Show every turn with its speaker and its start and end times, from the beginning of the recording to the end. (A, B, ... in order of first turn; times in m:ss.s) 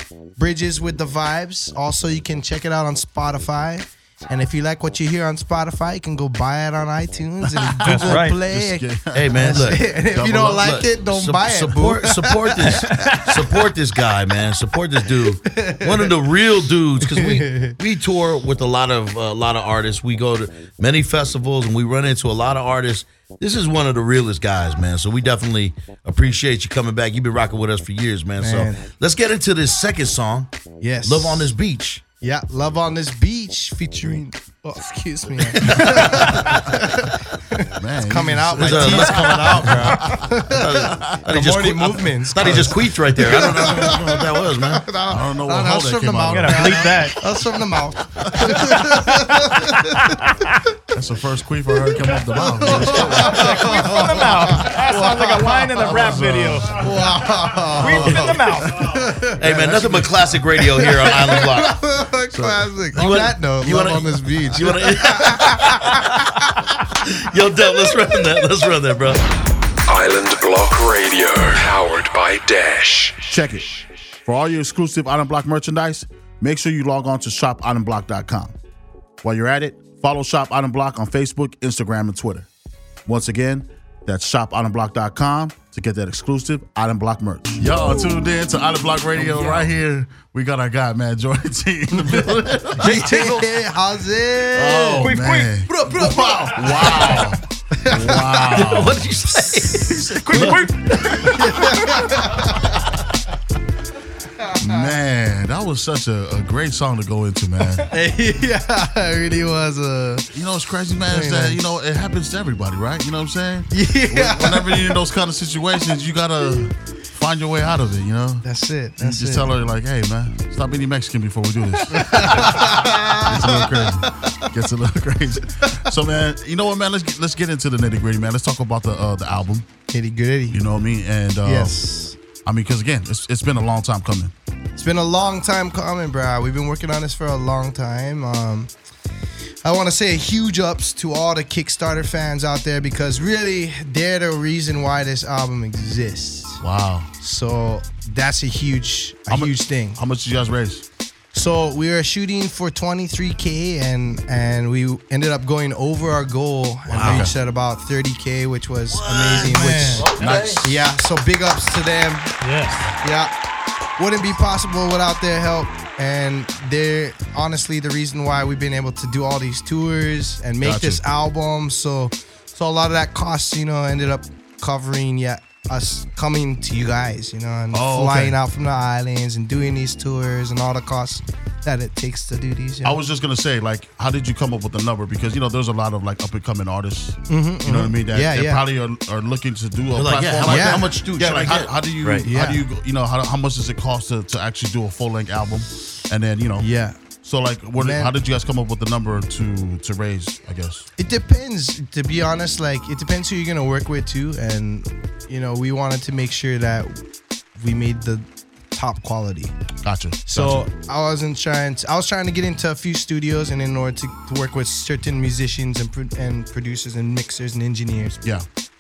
0:00.4-0:13.3 A
0:07.5-0:10.6 B
0:07.9-0:08.4 C
0:09.1-0:30.5 D
0:12.9-0:13.2 C
0:15.5-0:16.1 A
0:17.0-0:17.8 A
0:28.4-0:28.8 A
0:30.8-0:31.5 A
0:31.0-0:32.0 D
0:32.2-0:50.3 A
0:35.7-0:36.8 B
0:37.7-0:40.3 B
0:38.6-0:39.9 D
0:40.5-0:44.9 D
0:42.4-0:42.8 B
0:45.1-0:47.0 B
0:46.3-0:47.2 C
0:48.2-0:49.1 B
0:50.9-0:54.0 B
0:51.9-0:55.7 A
0:52.7-0:56.8 C
0:55.5-0:57.0 B
0:56.7-1:06.6 A
0:57.8-0:58.8 C
0:57.8-0:58.9 B
0:59.4-1:01.8 D
1:02.3-1:03.3 B
1:03.0-1:06.3 D
1:07.0-1:09.2 D
1:09.9-1:13.3 E
1:13.3-1:18.6 B
1:19.2-1:22.5 B
1:23.1-1:33.3 B
1:29.2-1:29.6 A
1:31.9-1:35.2 A
1:34.5-1:39.2 B
1:35.0-1:35.5 C
1:35.7-1:38.8 A
1:38.5-1:40.6 D
1:39.3-1:42.9 A
1:39.8-1:40.7 B
1:40.3-1:41.3 C
1:41.3-1:42.0 B
1:44.4-1:44.9 A
1:44.6-1:47.9 B
1:47.9-1:50.3 A
1:50.3-1:58.5 B
1:51.1-1:51.6 A
1:53.7-1:55.0 A
1:58.4-1:59.5 A
1:59.0-2:09.7 B
2:01.9-2:04.5 A
2:09.9-2:10.6 A
2:10.5-2:11.8 B
2:11.4-2:12.2 A
2:12.4-2:14.3 B
2:14.8-2:18.7 A
2:19.6-2:26.6 A
2:26.6-2:27.1 B
2:27.2-2:30.0 A
2:29.3-2:30.8 B
2:31.3-2:40.1 A
2:36.9-2:37.3 D
2:37.0-2:37.4 B
2:38.9-2:40.7 D
2:40.2-2:40.7 B
2:40.6-2:42.3 A
2:42.4-2:43.0 C
2:43.0-2:43.3 A
2:44.0-3:03.0 A
2:50.6-2:51.0 B
2:57.7-2:58.4 B
3:02.8-3:16.7 B
3:07.3-3:08.6 A
3:09.9-3:12.3 D
3:10.4-3:10.9 A
3:12.2-3:12.6 A
3:16.6-3:17.0 A
3:17.2-3:20.9 B
3:17.8-3:18.1 A
3:21.0-3:27.0 A
3:27.6-3:29.6 A
3:29.8-3:30.7 B
3:30.3-3:38.2 A